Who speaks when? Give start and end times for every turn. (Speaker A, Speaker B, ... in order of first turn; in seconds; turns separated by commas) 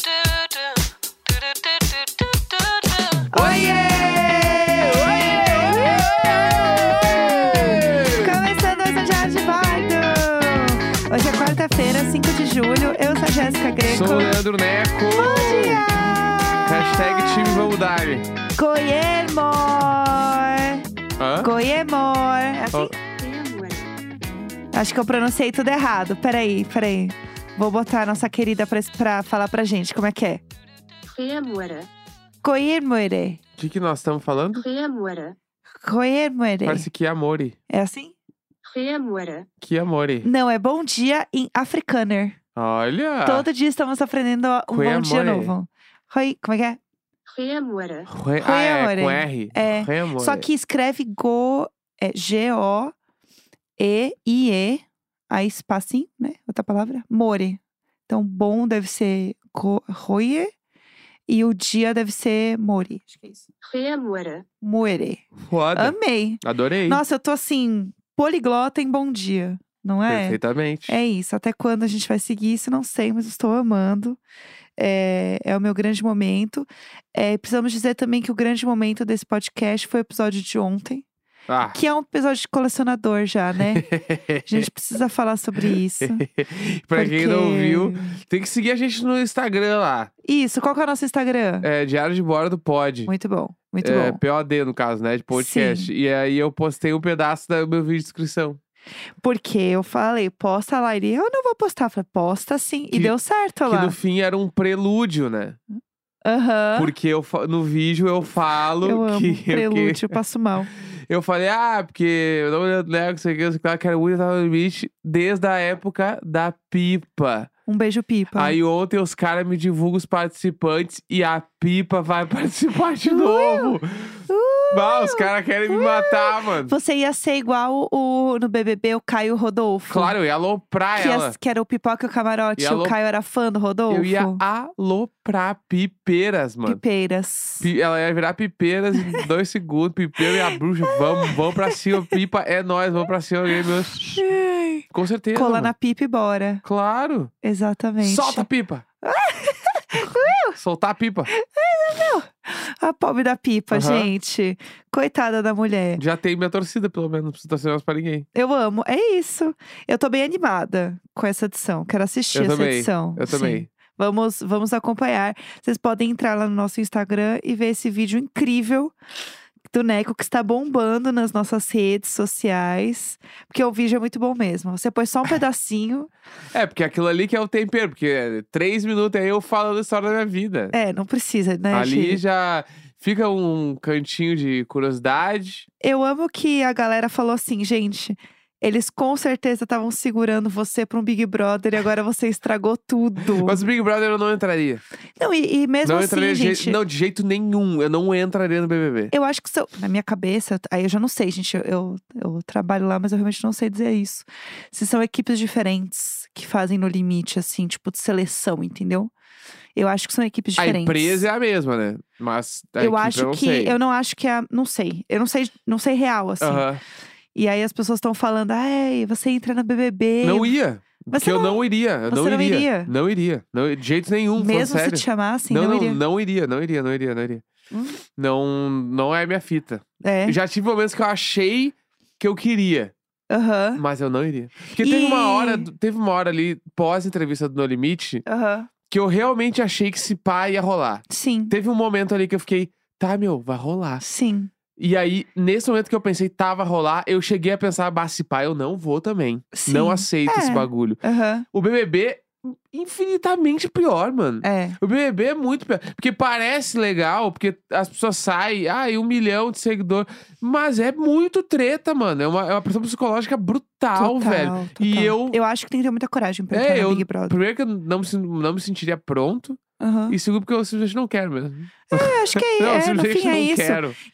Speaker A: 3.3-8.4, Speaker B: 3.3-14.4, Speaker A: 13.9-15.9, Speaker B: 15.1-17.6, Speaker A: 16.7-18.3, Speaker B: 18.6-20.8, Speaker A: 21.2-21.5, Speaker B: 21.4-22.9, Speaker C: 23.1-23.9, Speaker B: 24.7-30.4, Speaker C: 31.1-31.9, Speaker B: 32.4-33.4, Speaker A: 33.6-34.7, Speaker C: 34.5-35.4, Speaker B: 35.8-36.9, Speaker A: 36.6-37.6, Speaker B: 37.7-38.1, Speaker C: 38.6-39.5, Speaker A: 39.6-40.3, Speaker B: 40.2-42.4, Speaker A: 42.6-43.5, Speaker B: 43.2-46.8, Speaker A: 44.7-45.5, Speaker C: 47.3-48.1, Speaker A: 48.1-50.5, Speaker B: 48.4-52.9, Speaker B: 53.8-60.5, Speaker B: 61.3-63.5, Speaker C: 63.6-64.5, Speaker B: 64.6-74.2, Speaker A: 65.4-67.0, Speaker A: 70.1-71.0, Speaker B: 74.8-81.0, Speaker A: 81.5-81.8, Speaker B: 81.7-83.9, Speaker A: 83.7-84.5, Speaker B: 84.4-86.2, Speaker A: 86.0-90.1, Speaker B: 87.0-88.2, Speaker B: 90.2-91.7, Speaker A: 91.6-93.1, Speaker B: 93.1-94.2, Speaker A: 93.8-98.6, Speaker B: 95.3-95.9, Speaker B: 99.2-104.0, Speaker A: 102.9-105.6, Speaker B: 106.2-106.9, Speaker A: 106.8-110.2, Speaker B: 108.8-110.7, Speaker A: 111.1-117.5, Speaker B: 117.7-118.6, Speaker A: 118.3-126.8, Speaker B: 123.0-123.8, Speaker B: 124.3-130.2, Speaker A: 129.9-131.4, Speaker B: 130.9-134.4, Speaker A: 132.6-133.0, Speaker A: 133.9-136.8, Speaker B: 136.7-137.7, Speaker A: 137.6-144.2, Speaker B: 139.0-139.2, Speaker B: 140.2-142.1, Speaker B: 144.0-146.6, Speaker A: 144.9-145.7, Speaker A: 146.6-147.3, Speaker B: 147.4-148.5, Speaker A: 148.0-148.8, Speaker B: 149.0-150.6, Speaker A: 150.5-151.3, Speaker B: 151.3-156.0, Speaker A: 153.7-154.1, Speaker A: 156.0-158.3, Speaker B: 158.3-168.9, Speaker A: 162.3-163.7, Speaker B: 169.7-176.1, Speaker A: 176.5-180.7, Speaker B: 180.7-182.2, Speaker A: 181.7-185.7, Speaker B: 185.8-193.6, Speaker A: 193.4-194.8, Speaker B: 195.2-196.8, Speaker A: 195.8-199.1, Speaker B: 199.1-209.1, Speaker B: 209.8-211.2, Speaker A: 210.6-213.8, Speaker B: 212.8-216.7, Speaker A: 216.4-216.8, Speaker B: 217.3-220.6, Speaker A: 220.2-227.4, Speaker B: 221.1-222.9, Speaker B: 224.4-226.0, Speaker B: 227.7-228.0, Speaker A: 228.1-232.9, Speaker B: 230.0-230.4, Speaker B: 233.3-233.8, Speaker A: 233.8-238.2, Speaker B: 234.7-235.7, Speaker B: 238.3-238.7, Speaker A: 238.9-244.0, Speaker B: 241.1-241.5, Speaker B: 244.0-244.5, Speaker A: 244.8-251.0, Speaker B: 249.5-251.4, Speaker A: 251.5-265.4, Speaker B: 254.4-254.8, Speaker B: 263.9-267.4, Speaker A: 266.5-273.9, Speaker B: 269.8-270.2, Speaker B: 271.9-273.8